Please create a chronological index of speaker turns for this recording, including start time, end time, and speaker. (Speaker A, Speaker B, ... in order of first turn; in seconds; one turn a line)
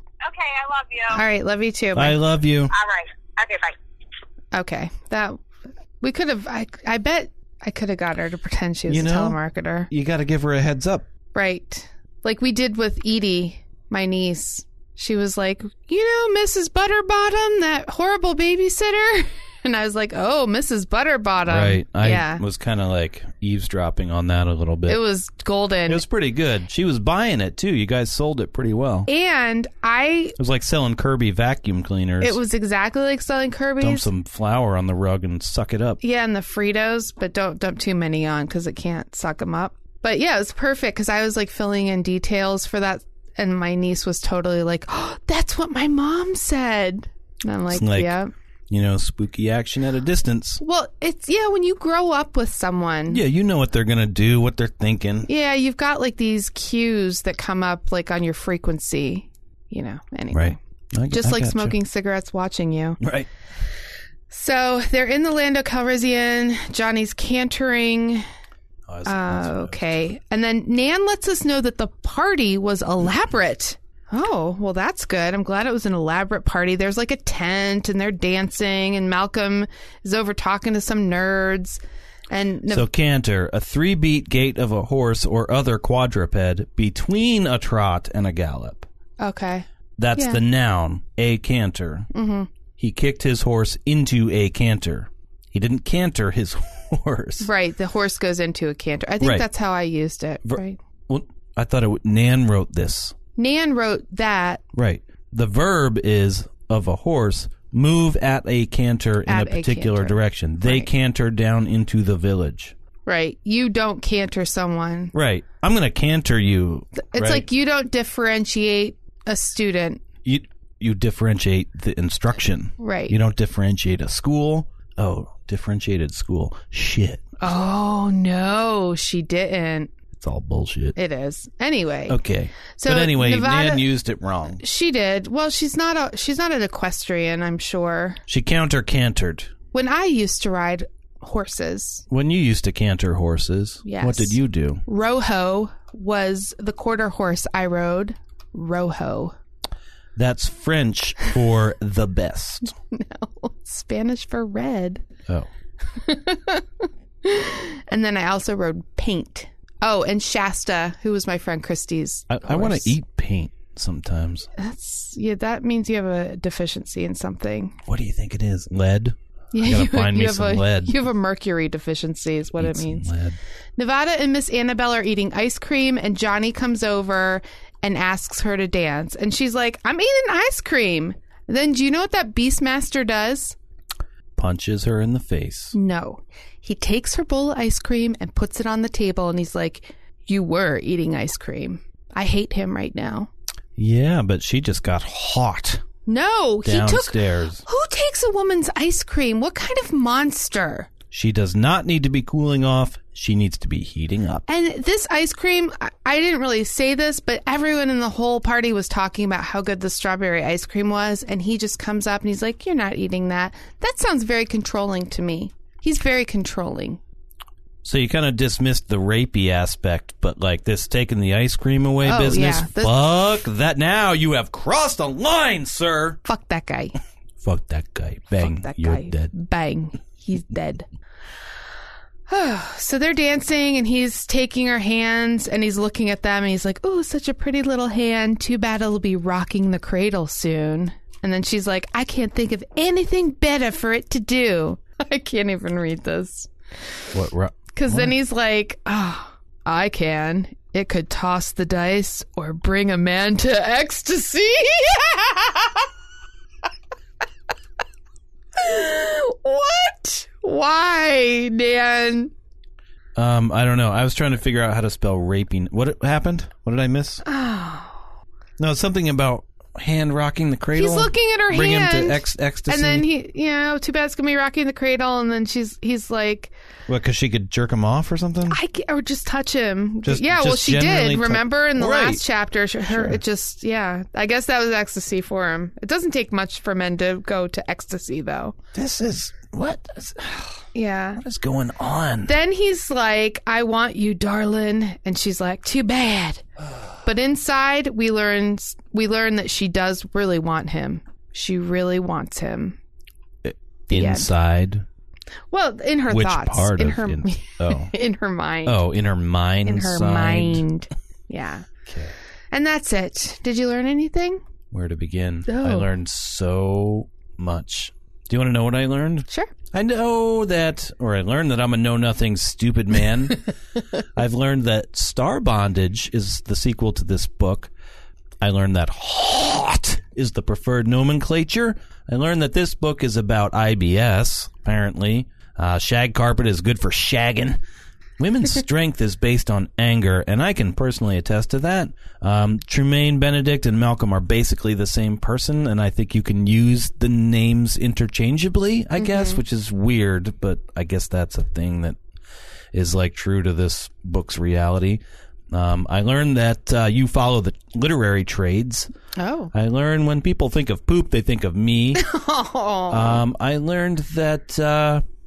Speaker A: 0.2-1.2
Speaker B: 1.1-2.2
Speaker C: 1.9-2.7
Speaker A: 2.7-3.8
Speaker B: 4.5-5.4
Speaker B: 6.0-9.9
Speaker C: 8.9-9.4
Speaker C: 9.9-11.1
Speaker B: 11.3-22.4
Speaker C: 21.5-25.0
Speaker B: 24.9-26.0
Speaker C: 25.9-29.1
Speaker B: 29.1-30.4
Speaker C: 30.4-32.4
Speaker B: 32.2-34.1
Speaker C: 33.8-36.0
Speaker B: 36.0-48.3
Speaker C: 47.7-48.2
Speaker C: 48.7-50.6
Speaker B: 50.6-53.2
Speaker C: 53.1-55.3
Speaker B: 55.3-60.6
Speaker C: 60.3-61.8
Speaker B: 61.1-63.0
Speaker C: 63.0-63.3
Speaker B: 64.3-68.2
Speaker C: 68.9-70.2
Speaker B: 69.0-82.9
Speaker C: 82.7-88.9
Speaker B: 89.2-90.4
Speaker C: 90.0-92.1
Speaker B: 92.1-92.5
Speaker C: 92.8-97.5
Speaker B: 97.4-100.8
Speaker C: 99.2-99.5
Speaker C: 100.4-103.2
Speaker B: 103.3-104.6
Speaker C: 104.7-112.7
Speaker B: 109.2-110.9
Speaker B: 113.0-115.1
Speaker C: 115.1-117.5
Speaker B: 117.0-120.0
Speaker C: 120.2-127.3
Speaker B: 122.8-123.2
Speaker B: 127.4-129.9
Speaker C: 130.1-130.9
Speaker B: 130.9-132.2
Speaker C: 132.1-134.6
Speaker B: 132.8-133.8
Speaker B: 134.6-138.2
Speaker C: 138.3-139.5
Speaker B: 139.7-142.0
Speaker C: 142.1-144.8
Speaker B: 143.8-149.3
Speaker C: 150.1-152.7
Speaker B: 152.7-155.0
Speaker B: 155.9-162.9
Speaker C: 162.3-164.5
Speaker B: 164.6-167.8
Speaker C: 167.8-171.0
Speaker B: 169.5-173.1
Speaker C: 172.6-173.4
Speaker B: 173.8-183.6
Speaker C: 184.3-185.7
Speaker B: 185.7-193.3
Speaker C: 193.8-195.8
Speaker B: 196.1-200.9
Speaker C: 196.6-197.6
Speaker C: 201.1-204.4
Speaker B: 204.5-217.0
Speaker C: 217.8-226.2
Speaker B: 222.0-223.0
Speaker B: 226.2-226.9
Speaker C: 227.4-229.3
Speaker B: 228.4-230.9
Speaker B: 232.3-246.5
Speaker C: 247.1-248.1
Speaker B: 247.7-255.9
Speaker B: 258.6-262.3
Speaker C: 263.1-267.2
Speaker B: 267.2-268.0
Speaker C: 268.6-273.1
Speaker B: 270.8-276.5
Speaker C: 276.9-278.6
Speaker B: 278.5-288.5
Speaker C: 280.0-282.2
Speaker C: 282.9-283.2
Speaker C: 288.7-290.5
Speaker B: 290.7-291.2
Speaker C: 291.2-292.4
Speaker B: 292.2-296.4
Speaker B: 297.0-302.8
Speaker C: 303.4-304.9
Speaker B: 303.9-304.3
Speaker B: 305.5-308.8
Speaker C: 306.1-307.9
Speaker C: 308.6-310.6
Speaker B: 309.6-311.7
Speaker C: 311.9-312.1
Speaker B: 312.5-314.4
Speaker C: 314.7-323.4
Speaker B: 315.5-315.9
Speaker B: 319.3-319.5
Speaker C: 324.1-327.7
Speaker C: 328.4-337.6
Speaker C: 338.2-352.0
Speaker B: 349.0-349.4
Speaker C: 352.7-358.9
Speaker B: 359.2-359.5
Speaker C: 359.5-362.1
Speaker B: 362.0-363.2
Speaker C: 362.9-365.0